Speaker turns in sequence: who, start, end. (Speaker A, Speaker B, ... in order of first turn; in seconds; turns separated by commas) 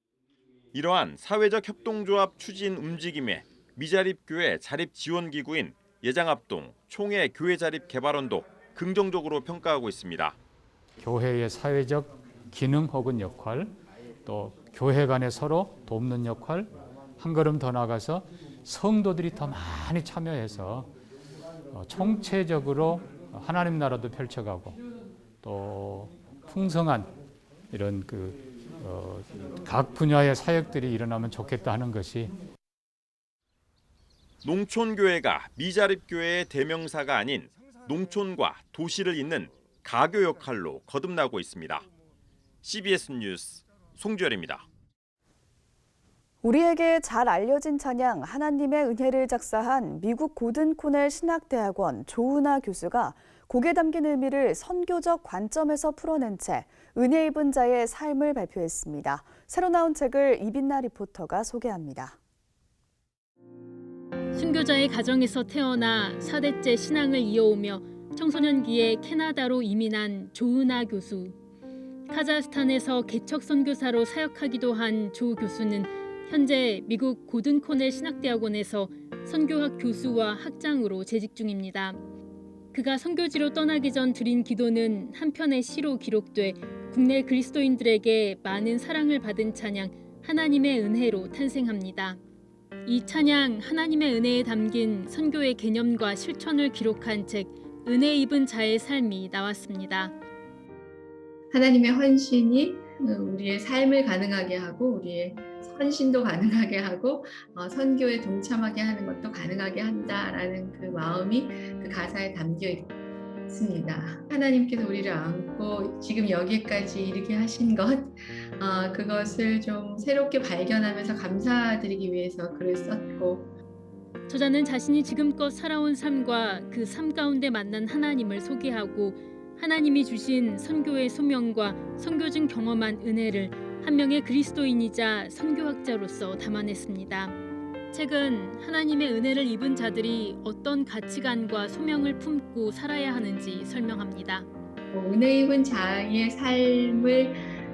Speaker A: 0.7-10.4, Speaker B: 11.0-20.9, Speaker B: 21.7-24.8, Speaker B: 25.4-27.1, Speaker B: 27.7-32.3, Speaker A: 34.4-41.9, Speaker A: 42.6-44.6, Speaker C: 46.4-62.2, Speaker D: 64.4-71.2, Speaker D: 72.1-81.9, Speaker D: 82.7-92.1, Speaker D: 92.9-100.0, Speaker E: 101.5-112.9, Speaker E: 113.5-123.5, Speaker D: 124.3-137.3, Speaker D: 137.9-144.4, Speaker E: 144.9-147.5